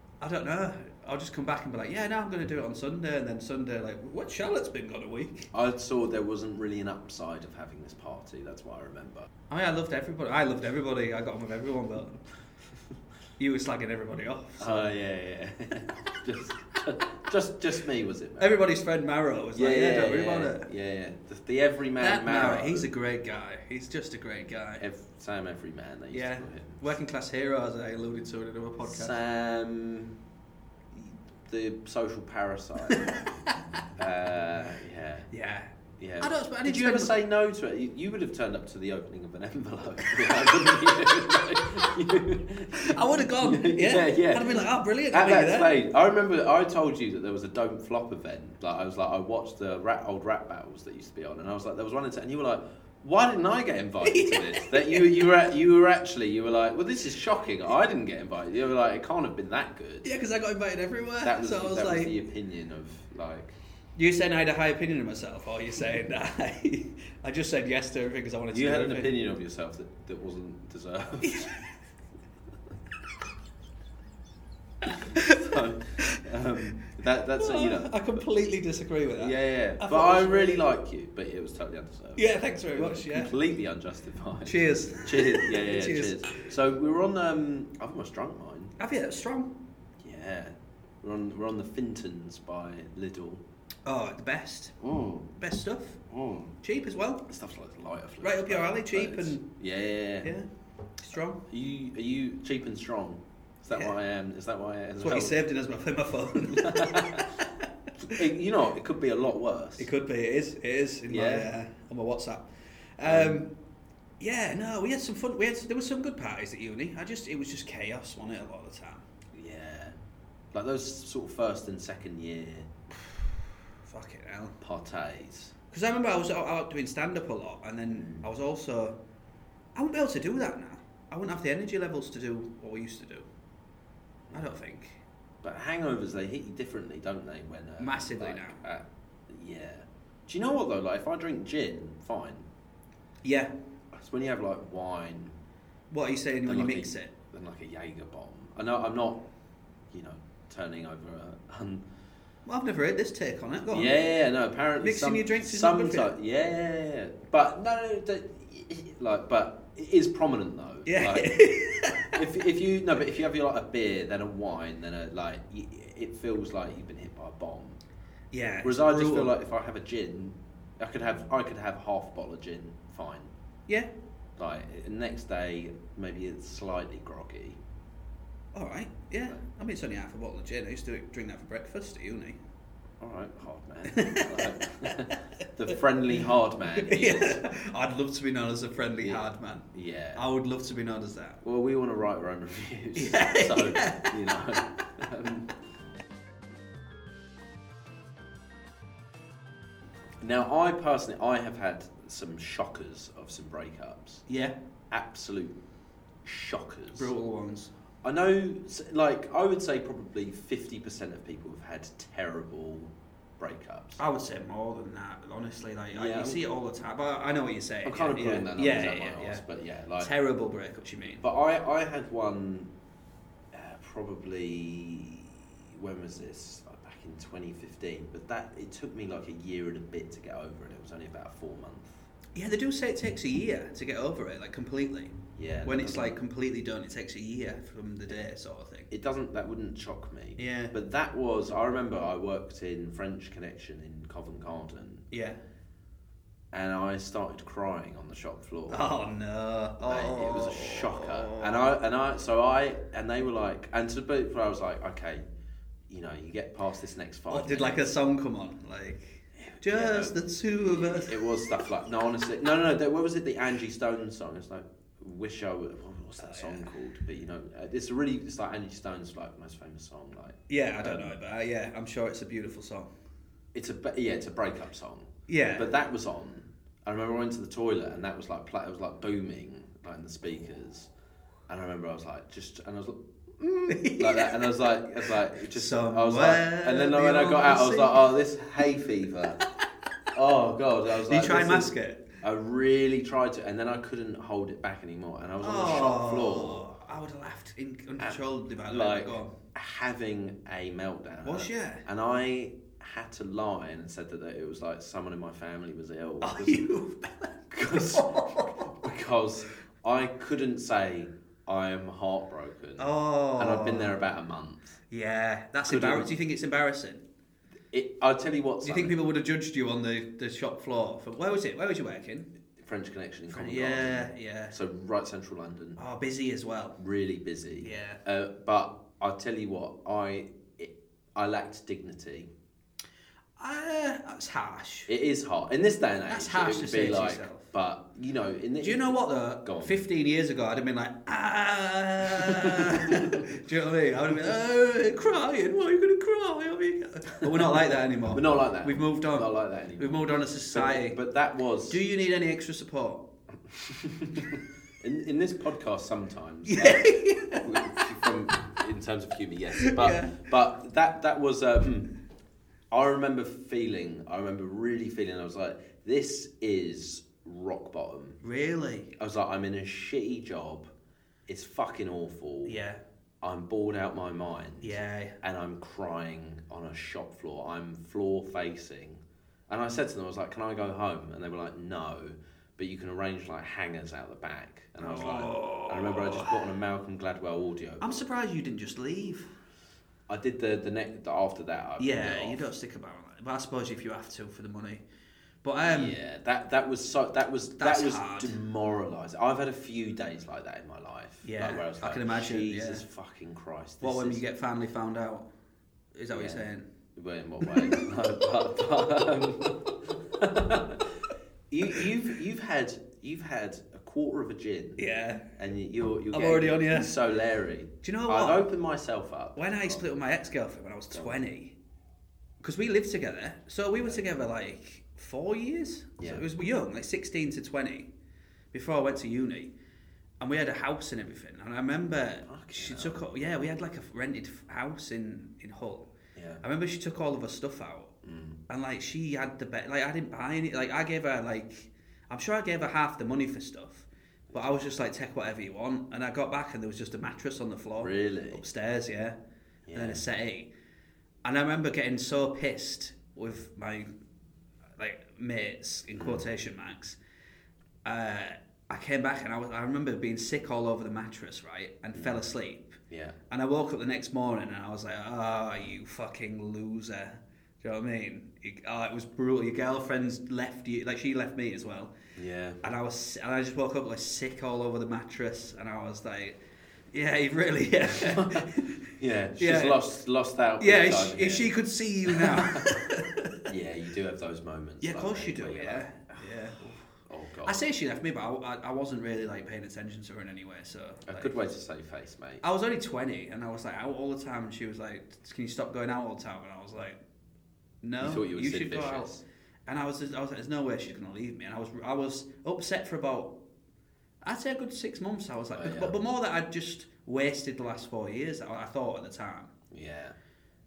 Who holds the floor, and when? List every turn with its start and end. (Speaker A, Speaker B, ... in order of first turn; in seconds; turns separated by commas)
Speaker A: 0.2-5.5, Speaker B: 5.5-9.3, Speaker A: 9.5-12.2, Speaker A: 13.4-14.9, Speaker B: 14.6-18.6, Speaker A: 18.4-20.7, Speaker B: 19.6-22.9, Speaker A: 22.0-24.8, Speaker B: 24.8-26.8, Speaker A: 26.1-29.2, Speaker B: 28.9-30.2, Speaker B: 31.5-33.2, Speaker A: 32.9-33.6, Speaker B: 34.0-35.3, Speaker A: 35.3-37.1, Speaker B: 36.0-60.1, Speaker A: 40.1-40.5, Speaker A: 42.8-45.7, Speaker A: 54.0-55.1, Speaker A: 60.0-62.1, Speaker B: 61.2-63.6, Speaker A: 64.0-69.1, Speaker B: 68.5-71.5, Speaker A: 71.2-71.7, Speaker A: 75.1-75.4, Speaker B: 75.2-78.2, Speaker A: 77.4-80.7, Speaker B: 79.2-88.8, Speaker A: 82.2-83.3, Speaker A: 84.5-86.3, Speaker A: 88.8-89.5, Speaker B: 90.0-93.4, Speaker A: 93.9-94.8, Speaker B: 94.8-95.3, Speaker A: 95.4-96.0, Speaker B: 96.1-96.5, Speaker A: 96.6-97.2, Speaker B: 97.3-100.3, Speaker A: 98.2-99.4, Speaker A: 101.0-101.4, Speaker B: 101.5-105.4, Speaker A: 103.7-104.0, Speaker A: 105.0-107.5, Speaker B: 106.6-107.3, Speaker B: 108.0-109.9, Speaker A: 109.8-113.5, Speaker B: 111.1-111.5, Speaker B: 113.0-113.5, Speaker A: 114.2-119.0, Speaker B: 119.3-120.0, Speaker B: 120.5-122.7, Speaker A: 123.8-124.6, Speaker B: 124.6-125.5, Speaker A: 125.7-129.0, Speaker B: 127.9-128.3, Speaker A: 129.8-133.3, Speaker A: 134.3-135.0, Speaker B: 135.4-142.5, Speaker A: 137.8-138.6, Speaker A: 143.2-143.5, Speaker B: 143.9-145.4, Speaker A: 145.9-147.1, Speaker B: 146.5-149.2, Speaker B: 149.9-151.8, Speaker A: 152.5-153.9, Speaker B: 153.7-161.4, Speaker A: 154.8-156.1, Speaker A: 160.9-162.2, Speaker B: 161.9-167.8, Speaker A: 168.3-169.3, Speaker B: 168.6-173.3, Speaker B: 174.4-177.6, Speaker A: 178.5-182.4, Speaker B: 183.0-187.4, Speaker A: 183.9-184.9, Speaker A: 186.8-191.4, Speaker B: 189.0-190.2, Speaker B: 191.4-195.5, Speaker A: 193.0-194.2, Speaker B: 200.2-204.2, Speaker A: 204.3-204.6, Speaker B: 204.9-205.6, Speaker B: 206.2-207.1, Speaker A: 206.9-207.7, Speaker B: 208.0-214.0, Speaker A: 214.0-219.4, Speaker B: 215.9-216.4, Speaker B: 217.8-220.1, Speaker A: 220.0-221.2, Speaker B: 221.2-222.7, Speaker B: 223.5-232.0, Speaker A: 232.3-238.9, Speaker B: 235.4-236.2, Speaker B: 238.9-245.1, Speaker A: 240.4-240.7, Speaker A: 245.1-245.4, Speaker B: 246.5-249.0, Speaker A: 248.7-251.7, Speaker B: 249.8-255.2, Speaker B: 255.9-257.9, Speaker A: 257.3-261.2, Speaker B: 259.4-271.1, Speaker A: 266.2-266.7, Speaker A: 270.5-272.9, Speaker B: 273.5-280.9, Speaker A: 275.3-275.7, Speaker B: 281.5-289.4, Speaker A: 283.7-284.5, Speaker A: 285.5-288.0, Speaker B: 290.1-291.7, Speaker A: 291.1-292.1, Speaker B: 292.2-296.6, Speaker A: 295.4-299.3, Speaker B: 298.0-306.6, Speaker A: 301.2-301.8, Speaker A: 306.2-308.7, Speaker B: 307.5-308.1, Speaker B: 308.7-314.8, Speaker A: 312.8-314.0, Speaker A: 314.9-317.0, Speaker B: 315.7-316.1, Speaker B: 317.7-318.9, Speaker A: 318.6-322.3, Speaker B: 322.6-325.8, Speaker A: 323.3-324.6, Speaker A: 325.8-326.8, Speaker B: 326.8-332.3, Speaker A: 327.6-328.0, Speaker A: 333.4-334.9, Speaker B: 334.9-338.9, Speaker A: 336.1-337.5, Speaker A: 338.6-351.0, Speaker B: 339.4-339.7, Speaker B: 342.2-343.2, Speaker B: 347.4-351.8, Speaker A: 351.7-353.0, Speaker B: 353.6-361.9, Speaker A: 356.5-357.5, Speaker A: 359.6-360.2, Speaker B: 362.7-368.2, Speaker A: 368.2-368.9, Speaker B: 369.0-370.7, Speaker B: 371.3-372.6, Speaker A: 372.5-372.8, Speaker B: 373.2-388.0, Speaker A: 374.6-375.2, Speaker A: 384.8-386.4, Speaker A: 387.8-389.3, Speaker B: 390.1-392.4, Speaker A: 391.8-394.8, Speaker A: 395.4-395.9, Speaker B: 395.6-404.2, Speaker A: 397.6-398.4, Speaker A: 401.2-402.8, Speaker A: 403.8-405.3, Speaker A: 405.9-406.7, Speaker B: 406.1-406.4, Speaker B: 407.0-410.9, Speaker A: 407.4-407.8, Speaker B: 411.5-414.8, Speaker A: 414.8-415.3, Speaker B: 415.4-419.8, Speaker A: 416.1-416.9, Speaker A: 417.8-418.5, Speaker A: 419.4-421.5, Speaker B: 420.9-421.2, Speaker A: 422.4-427.9, Speaker B: 423.8-424.0, Speaker B: 426.0-426.2, Speaker A: 428.5-429.5, Speaker A: 430.2-435.9, Speaker B: 432.2-433.0, Speaker B: 436.2-436.4, Speaker A: 436.4-437.9, Speaker B: 438.0-438.4, Speaker A: 438.5-449.2, Speaker B: 444.3-444.6, Speaker B: 447.8-448.4, Speaker B: 449.7-450.0, Speaker A: 449.8-450.5, Speaker A: 451.2-453.9, Speaker A: 454.8-457.0, Speaker B: 456.0-456.2, Speaker A: 457.9-462.8, Speaker B: 461.9-462.2, Speaker B: 462.9-463.2, Speaker A: 463.3-471.9, Speaker B: 472.2-472.6, Speaker A: 472.6-476.4, Speaker A: 476.9-478.9, Speaker B: 478.0-481.5, Speaker A: 479.4-479.8, Speaker A: 480.6-483.4, Speaker B: 482.1-482.8, Speaker B: 483.5-487.6, Speaker A: 484.8-486.8, Speaker A: 487.4-491.3, Speaker B: 491.1-492.4, Speaker A: 492.4-497.0, Speaker A: 497.8-499.1, Speaker B: 498.0-499.2, Speaker A: 499.7-503.3, Speaker A: 504.2-509.5, Speaker B: 505.6-505.9, Speaker B: 509.7-510.2